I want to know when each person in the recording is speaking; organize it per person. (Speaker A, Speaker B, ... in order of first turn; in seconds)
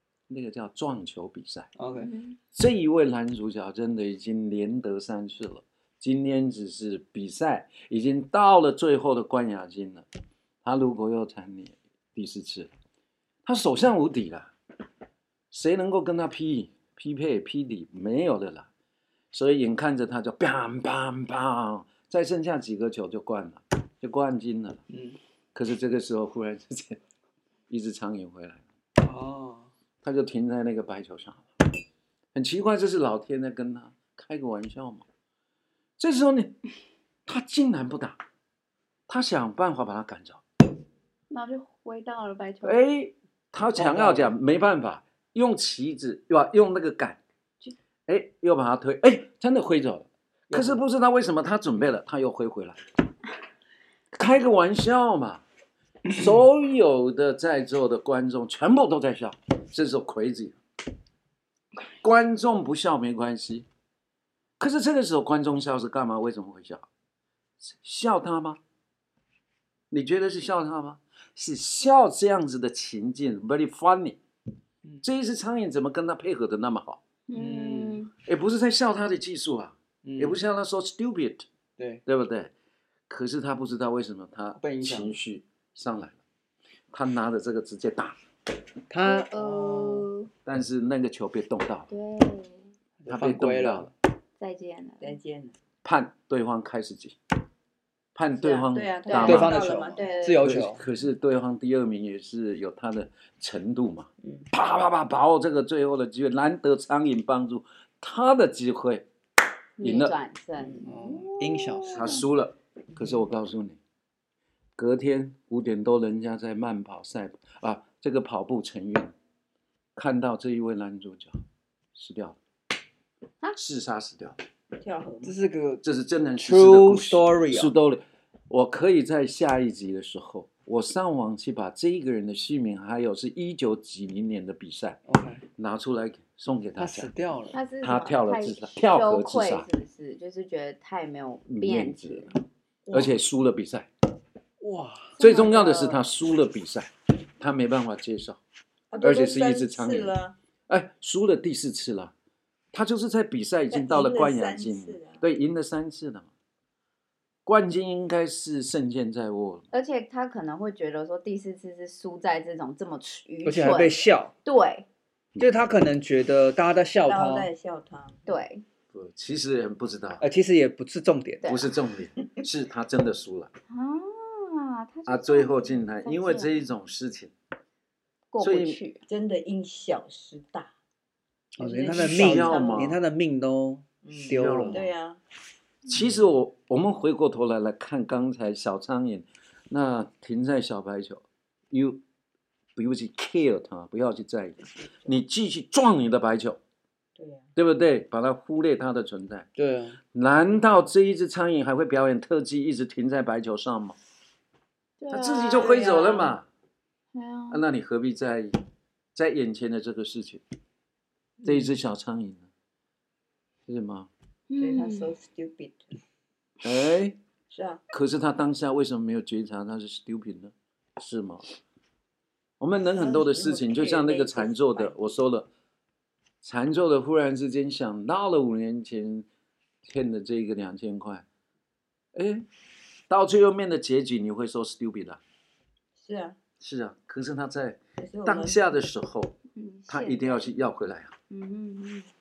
Speaker A: 0.3-1.7, 2.5-10.1, 10.6-12.7, 13.4-14.5, 15.5-18.7, 19.3-24.8, 25.5-27.0, 27.7-28.6, 30.0-31.7, 32.3-35.0, 36.0-36.6, 37.2-38.2, 39.1-40.4, 42.6-47.2, 48.1-52.8, 54.1-55.4, 56.0-60.6, 62.0-63.6, 64.6-66.9, 67.6-68.6, 69.9-74.2, 75.0-77.0, 78.2-81.5, 82.0-82.5, 83.1-86.2, 86.9-88.2, 90.4-91.9, 93.1-93.9, 95.8-97.2, 98.1-99.6, 100.4-109.1, 109.8-110.2, 111.9-113.8, 114.8-119.1, 119.9-121.4, 121.9-122.4, 123.5-124.4, 125.8-135.0, 135.5-137.1, 137.8-139.7, 141.5-142.4, 142.9-143.9, 145.2-148.4, 149.0-150.1, 150.7-152.1, 152.7-156.3, 157.4-159.6, 168.9-170.2, 171.4-173.5, 175.1-177.3, 178.4-178.8, 181.9-183.0, 184.3-184.9, 185.9-192.0, 192.8-196.6, 197.6-199.5, 200.1-204.0, 205.1-206.4, 207.5-208.6, 209.1-210.4, 211.4-212.5, 213.7-214.1, 216.6-217.2, 217.9-221.4, 222.6-225.5, 226.4-229.3, 229.8-231.2, 232.1-232.4, 233.1-235.2, 236.6-239.3, 239.9-241.1
Speaker B: 1.8-2.2, 24.9-25.2, 29.0-29.7, 43.7-44.4, 50.5-50.8, 77.3-78.0, 80.0-80.4, 84.5-85.2, 88.9-89.8, 93.0-93.9, 99.2-100.8, 110.8-112.2, 125.2-125.8, 126.4-127.7, 135.1-135.4, 136.8-137.6, 144.6-145.6, 163.4-164.3, 165.4-167.5, 170.2-171.5, 181.6-184.8, 199.6-200.0, 211.4-211.7
Speaker C: 2.0-2.4, 41.3-42.8, 77.3-78.1, 89.0-90.3, 91.9-92.7, 94.4-95.2, 99.1-99.8, 109.8-112.2, 137.5-142.3, 145.4-145.9, 159.7-164.8, 168.3-168.6, 173.7-176.6, 178.3-179.0, 205.0-205.9, 207.1-207.6, 214.5-215.1, 239.6-240.5, 241.3-242.1
Speaker D: 89.3-90.0, 95.0-95.5, 98.4-100.5, 104.2-104.5, 110.6-110.9, 112.9-113.2, 124.8-125.3, 142.9-143.2, 148.9-150.3, 153.7-155.2, 167.1-168.3, 179.1-180.7, 181.6-182.8, 184.0-185.2, 197.2-197.5, 205.5-206.3, 214.6-216.0, 217.5-217.8, 222.9-224.9, 235.9-236.4, 238.0-238.7